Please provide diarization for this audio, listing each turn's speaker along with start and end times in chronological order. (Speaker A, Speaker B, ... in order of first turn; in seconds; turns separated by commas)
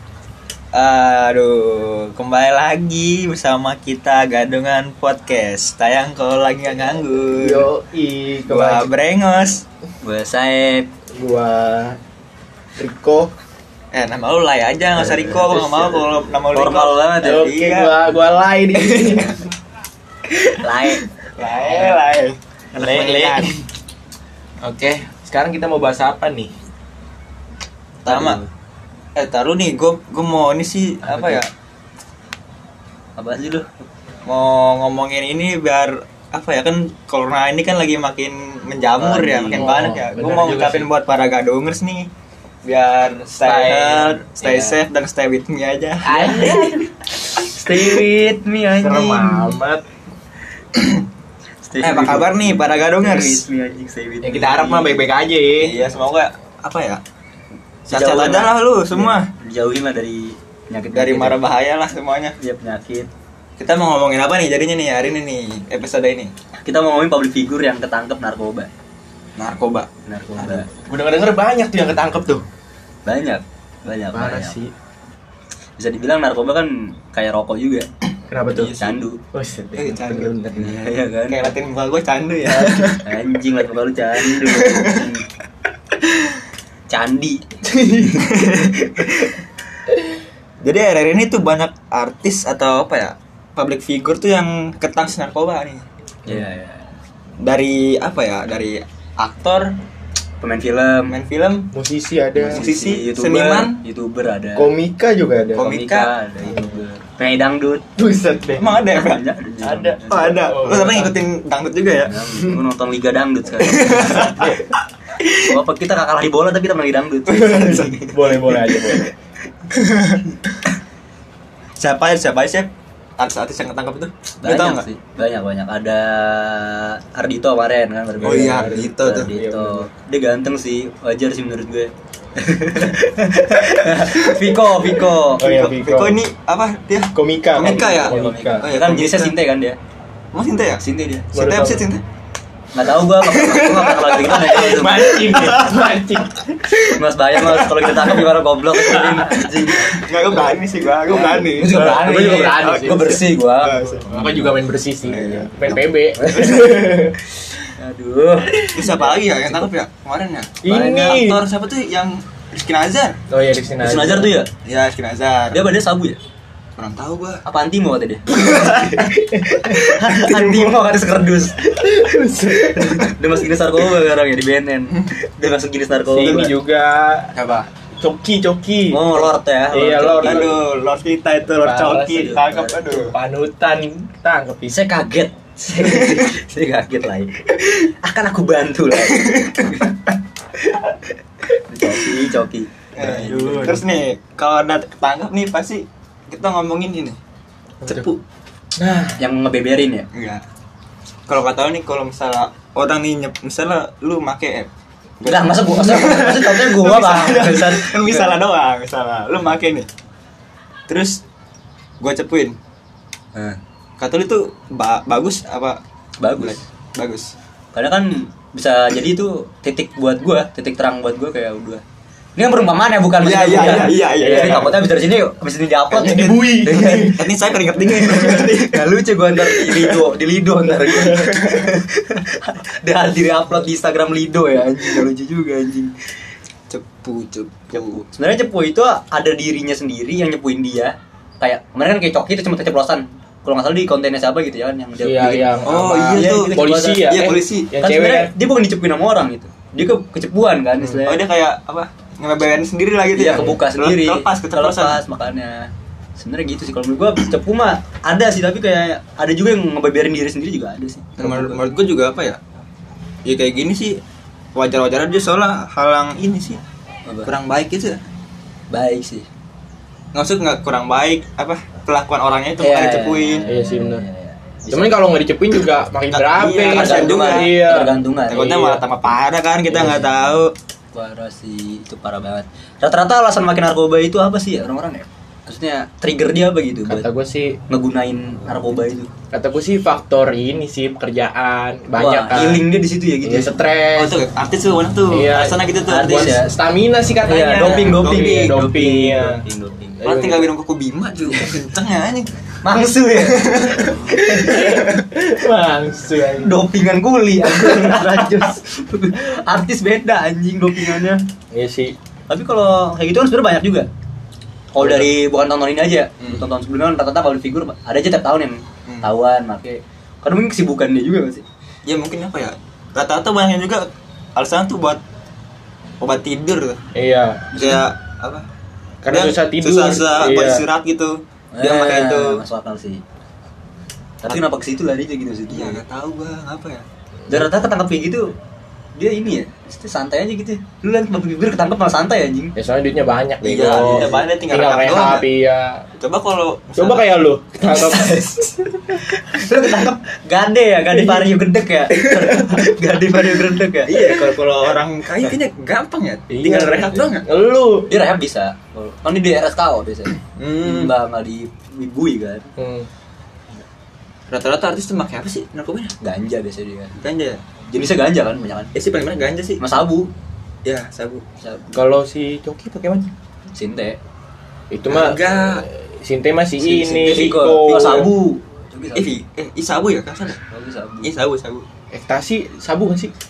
Speaker A: 0.7-7.7, Speaker B: 7.3-8.9, Speaker A: 8.5-9.6, Speaker C: 10.0-10.9, Speaker B: 11.1-12.0, Speaker B: 12.8-13.3, Speaker A: 13.9-17.9, Speaker B: 14.9-16.0, Speaker C: 16.5-17.5, Speaker B: 17.2-19.3, Speaker A: 18.8-19.3, Speaker C: 20.6-22.0, Speaker A: 21.2-23.5, Speaker B: 22.8-23.5, Speaker B: 24.6-26.5, Speaker A: 28.0-28.4, Speaker C: 28.1-28.5, Speaker A: 29.1-31.5, Speaker C: 31.0-31.4, Speaker C: 33.2-33.9, Speaker A: 34.2-42.1, Speaker C: 39.0-39.8, Speaker B: 39.5-40.9, Speaker A: 42.6-46.8, Speaker B: 43.5-43.9, Speaker C: 43.5-44.8, Speaker C: 46.0-49.5, Speaker B: 46.0-46.8, Speaker B: 48.7-49.8, Speaker A: 50.7-51.0, Speaker C: 51.6-55.0, Speaker A: 51.8-53.4, Speaker B: 54.2-55.8, Speaker A: 55.6-57.0, Speaker C: 57.9-61.4, Speaker A: 57.9-59.3, Speaker A: 60.9-62.4, Speaker C: 62.4-63.1, Speaker A: 63.6-66.3, Speaker C: 66.6-68.7, Speaker A: 69.4-70.6, Speaker C: 70.0-70.7, Speaker B: 70.8-72.4, Speaker C: 73.0-74.5, Speaker B: 74.1-74.7, Speaker C: 75.8-77.9, Speaker B: 78.3-78.7, Speaker A: 78.5-79.0, Speaker C: 78.5-79.2, Speaker B: 79.3-80.8, Speaker A: 79.8-80.5, Speaker C: 80.5-81.5, Speaker A: 81.3-83.0, Speaker B: 82.5-83.0, Speaker C: 83.0-85.2, Speaker A: 84.2-85.1, Speaker C: 86.9-88.6, Speaker B: 87.7-88.2, Speaker A: 88.2-89.3, Speaker A: 90.6-95.8, Speaker C: 96.2-96.9, Speaker A: 97.4-99.7, Speaker C: 100.4-101.2, Speaker A: 101.1-101.7, Speaker B: 101.7-102.7, Speaker C: 102.4-104.7, Speaker A: 102.4-103.8, Speaker B: 104.5-105.7, Speaker A: 105.5-106.1, Speaker C: 105.6-107.8, Speaker B: 106.5-106.8, Speaker B: 108.0-108.8, Speaker A: 108.5-109.2, Speaker C: 108.6-110.4, Speaker B: 109.6-111.2, Speaker A: 110.1-112.1, Speaker C: 112.0-114.6, Speaker A: 113.6-114.6, Speaker B: 114.3-114.6, Speaker C: 115.4-118.2, Speaker B: 117.3-119.1, Speaker A: 117.4-117.9, Speaker A: 119.7-120.2, Speaker A: 121.8-124.8, Speaker C: 124.4-135.4, Speaker B: 128.2-129.9, Speaker A: 128.2-129.3, Speaker A: 134.1-134.5, Speaker A: 135.2-139.3, Speaker B: 135.4-136.2, Speaker B: 137.1-138.7, Speaker C: 137.6-139.8, Speaker A: 140.3-142.0, Speaker C: 140.8-141.3, Speaker B: 141.3-141.9, Speaker C: 142.7-145.3, Speaker A: 143.2-146.1, Speaker B: 144.3-146.8, Speaker C: 146.9-150.0, Speaker A: 147.5-147.9, Speaker A: 148.9-154.5, Speaker C: 151.1-153.8, Speaker B: 151.1-153.2, Speaker B: 153.8-157.3, Speaker A: 155.0-157.1, Speaker C: 155.7-156.7, Speaker C: 157.8-159.4, Speaker A: 158.6-163.2, Speaker B: 160.6-161.4, Speaker C: 160.7-161.2, Speaker B: 163.3-164.3, Speaker C: 163.8-164.5, Speaker A: 164.6-165.7, Speaker C: 165.5-166.2, Speaker A: 166.8-167.4, Speaker C: 167.4-171.6, Speaker A: 168.3-169.1, Speaker B: 168.8-169.8, Speaker A: 170.2-170.6, Speaker B: 171.7-173.1, Speaker C: 172.7-176.5, Speaker B: 176.1-180.6, Speaker C: 178.9-180.5, Speaker A: 180.2-183.1, Speaker B: 181.5-184.8, Speaker C: 182.1-182.8, Speaker C: 184.7-190.0, Speaker A: 185.9-186.2, Speaker A: 189.1-189.7, Speaker C: 191.6-193.8, Speaker A: 192.9-197.2, Speaker B: 193.0-193.8, Speaker B: 197.8-198.1, Speaker A: 197.8-198.2, Speaker B: 198.8-199.2, Speaker C: 199.2-200.1, Speaker A: 200.1-200.4, Speaker A: 201.3-204.7, Speaker A: 205.2-209.9, Speaker C: 205.2-208.4, Speaker A: 210.9-211.2, Speaker A: 212.0-212.6, Speaker A: 214.0-215.8, Speaker C: 216.2-216.6, Speaker A: 216.4-217.3, Speaker C: 217.7-221.8, Speaker C: 222.3-227.2, Speaker A: 223.2-224.8, Speaker B: 223.9-224.8, Speaker B: 225.9-227.2, Speaker A: 226.0-228.9, Speaker C: 227.9-235.9, Speaker A: 229.6-229.9, Speaker A: 231.0-231.7, Speaker A: 236.7-238.0, Speaker C: 237.7-247.3, Speaker B: 245.0-248.3, Speaker A: 245.6-247.7, Speaker C: 247.8-251.2, Speaker A: 251.0-255.0, Speaker C: 253.1-261.6, Speaker B: 253.3-253.5, Speaker A: 261.2-262.4, Speaker A: 263.2-264.0, Speaker A: 264.5-266.6, Speaker A: 267.2-268.0, Speaker C: 268.7-269.3, Speaker A: 270.1-273.4, Speaker C: 272.6-274.9, Speaker B: 273.5-274.0, Speaker B: 274.7-278.8, Speaker A: 276.1-277.5, Speaker C: 276.6-278.5, Speaker A: 278.3-280.5, Speaker B: 279.7-280.0, Speaker C: 280.9-287.1, Speaker B: 286.9-287.6, Speaker C: 287.7-289.1, Speaker B: 289.3-292.6, Speaker C: 291.9-293.5, Speaker B: 293.2-294.2, Speaker A: 293.9-296.4, Speaker B: 295.1-299.4, Speaker C: 295.9-296.5, Speaker C: 297.2-300.0, Speaker A: 297.6-298.5, Speaker B: 300.0-300.5, Speaker A: 300.0-302.3, Speaker C: 302.6-304.7, Speaker A: 303.1-305.1, Speaker B: 304.1-306.6, Speaker C: 306.4-311.2, Speaker B: 311.5-311.9, Speaker C: 312.3-313.9, Speaker C: 314.7-321.4, Speaker B: 314.8-315.1, Speaker A: 321.8-325.0, Speaker A: 326.0-326.8, Speaker B: 326.9-327.6, Speaker C: 327.5-327.8, Speaker A: 327.5-328.4, Speaker B: 329.0-330.6, Speaker A: 329.1-332.4, Speaker C: 331.5-333.0, Speaker C: 334.2-335.8, Speaker A: 335.5-336.8, Speaker C: 337.3-338.3, Speaker C: 338.9-342.5, Speaker B: 342.6-345.9, Speaker A: 343.4-345.2, Speaker C: 343.7-344.2, Speaker A: 346.0-347.1, Speaker B: 346.8-348.3, Speaker C: 347.6-354.1, Speaker A: 353.9-357.2, Speaker B: 356.3-357.9, Speaker C: 357.9-362.5, Speaker A: 360.4-360.9, Speaker B: 362.6-362.9, Speaker A: 364.3-365.9, Speaker C: 366.0-367.0, Speaker A: 367.0-367.4, Speaker C: 367.7-368.7, Speaker A: 368.7-369.6, Speaker C: 369.6-370.1, Speaker A: 370.6-371.2, Speaker C: 371.4-371.8, Speaker B: 371.7-373.1, Speaker C: 373.5-374.0, Speaker B: 374.7-378.1, Speaker A: 374.9-375.6, Speaker C: 376.6-379.1, Speaker A: 377.8-378.0, Speaker A: 378.9-380.4, Speaker C: 380.4-381.1, Speaker A: 381.0-381.6, Speaker B: 381.9-383.1